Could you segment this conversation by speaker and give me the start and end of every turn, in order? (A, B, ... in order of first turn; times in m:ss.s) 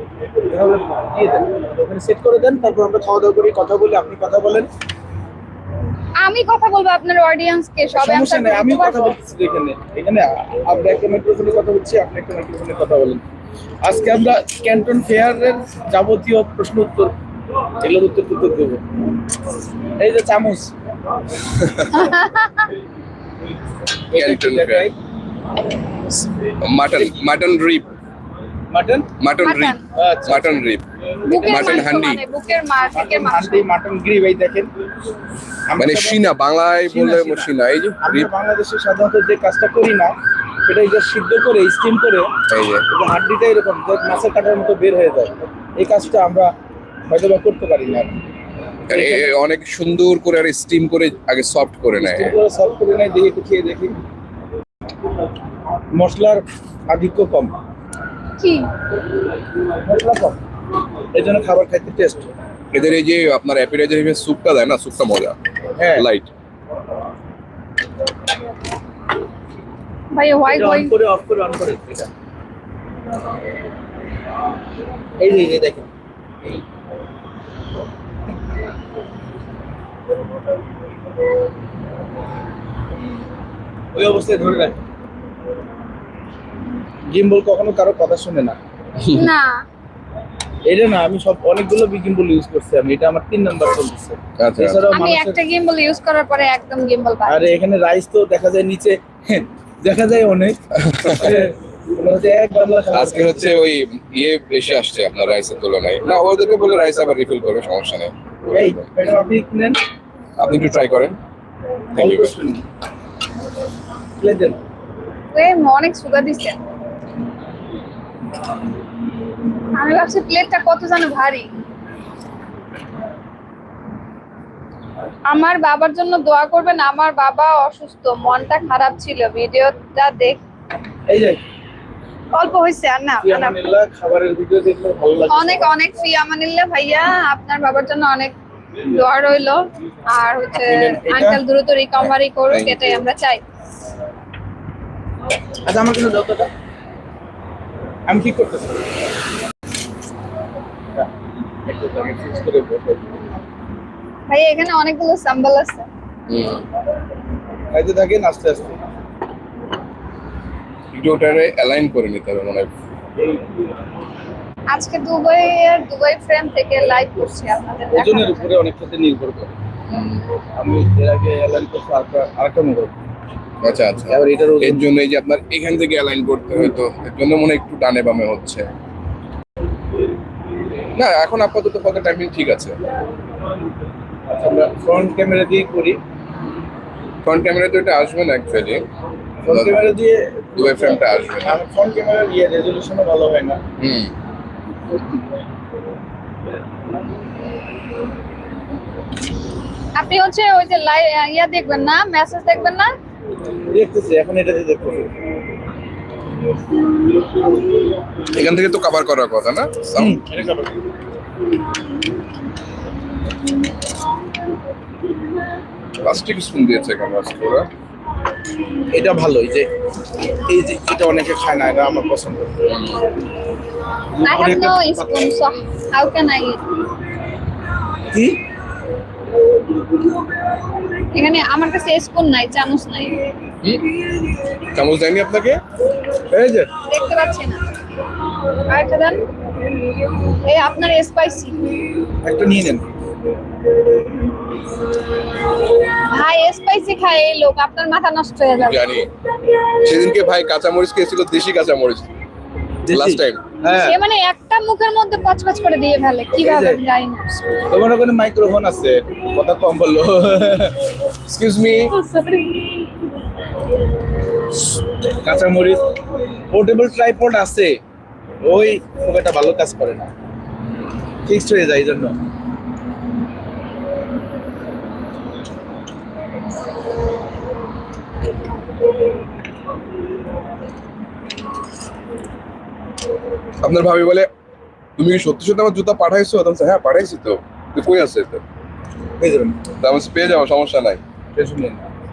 0:00.5-0:04.7 A
0:06.2-0:09.2 B
0:08.0-0:13.2 A
0:13.8-0:17.1 A
0:17.8-0:18.8 A
0:20.0-0:20.7 A
0:21.6-0:21.9 C
0:21.9-0:22.7 B
0:24.1-0:25.0 A
0:24.1-0:24.9 C
0:26.6-0:27.9 C
0:28.7-0:29.1 A
0:29.2-0:30.8 C
0:29.4-0:29.8 B
0:30.0-0:30.6 A
0:31.2-0:31.9 A
0:31.2-0:33.7 B
0:31.5-0:32.2 C
0:32.9-0:34.7 A
0:35.7-0:36.2 A
0:35.8-0:38.3 C
0:36.9-0:37.5 A
0:38.0-0:42.3 A
0:42.5-0:42.9 C
0:42.9-0:46.5 A
0:47.1-0:48.2 A
0:48.9-0:52.3 C
0:48.9-0:49.2 A
0:52.1-0:54.0 A
0:55.9-0:57.5 A
0:58.4-0:58.7 B
0:59.8-1:00.4 A
1:01.1-1:02.3 A
1:02.7-1:05.4 C
1:05.8-1:06.1 A
1:06.0-1:06.3 C
1:10.1-1:10.9 B
1:10.5-1:12.1 A
1:15.2-1:15.9 A
1:24.0-1:24.8 A
1:27.1-1:28.6 A
1:29.0-1:29.3 C
1:29.1-1:29.6 B
1:30.7-1:35.4 A
1:34.4-1:34.8 C
1:34.9-1:37.5 B
1:37.3-1:43.6 A
1:40.8-1:41.5 C
1:42.9-1:48.8 C
1:48.5-1:49.8 A
1:50.4-1:51.2 C
1:52.0-1:52.3 C
1:52.0-1:52.6 A
1:54.2-1:54.6 A
1:55.3-1:56.6 B
1:59.8-2:01.5 B
2:05.3-2:10.4 B
2:11.1-2:11.4 A
2:12.3-2:13.6 B
2:13.2-2:15.7 A
2:15.3-2:23.4 B
2:20.5-2:21.4 A
2:22.0-2:22.8 C
2:25.7-2:26.5 A
2:28.1-2:28.8 A
2:31.7-2:33.2 A
2:34.3-2:35.9 B
2:36.3-2:36.6 C
2:37.7-2:38.8 A
2:40.9-2:42.7 C
2:44.7-2:48.5 B
2:47.9-2:49.6 A
2:50.6-2:53.0 A
2:53.6-2:58.7 C
2:54.0-2:54.9 A
3:01.0-3:02.8 C
3:04.3-3:06.0 A
3:07.2-3:08.8 C
3:09.4-3:13.6 A
3:09.5-3:09.8 C
3:10.6-3:11.6 C
3:13.8-3:14.1 C
3:20.0-3:22.9 B
3:23.7-3:25.1 A
3:28.3-3:30.3 C
3:30.0-3:30.8 A
3:36.0-3:37.7 C
3:38.9-3:39.7 A
3:40.2-3:42.6 A
3:42.6-3:43.1 C
3:44.2-3:45.2 A
3:44.2-3:46.7 B
3:48.1-3:48.4 A
3:51.1-3:53.2 B
3:53.6-3:55.6 C
3:56.3-3:56.7 A
3:56.9-3:57.6 B
3:58.7-3:59.2 B
4:00.3-4:02.0 B
4:02.2-4:02.9 A
4:06.0-4:08.8 B
4:08.6-4:09.1 C
4:09.8-4:12.1 C
4:12.8-4:14.0 A
4:12.9-4:13.4 C
4:13.7-4:17.4 B
4:16.4-4:16.8 A
4:17.7-4:20.8 A
4:21.2-4:22.0 C
4:21.9-4:22.9 B
4:25.1-4:25.9 A
4:26.5-4:27.8 A
4:28.4-4:30.1 A
4:31.2-4:32.2 A
4:43.6-4:44.3 C
4:45.0-4:48.4 C
4:49.2-4:49.6 A
4:49.8-4:51.0 C
4:51.4-4:51.9 A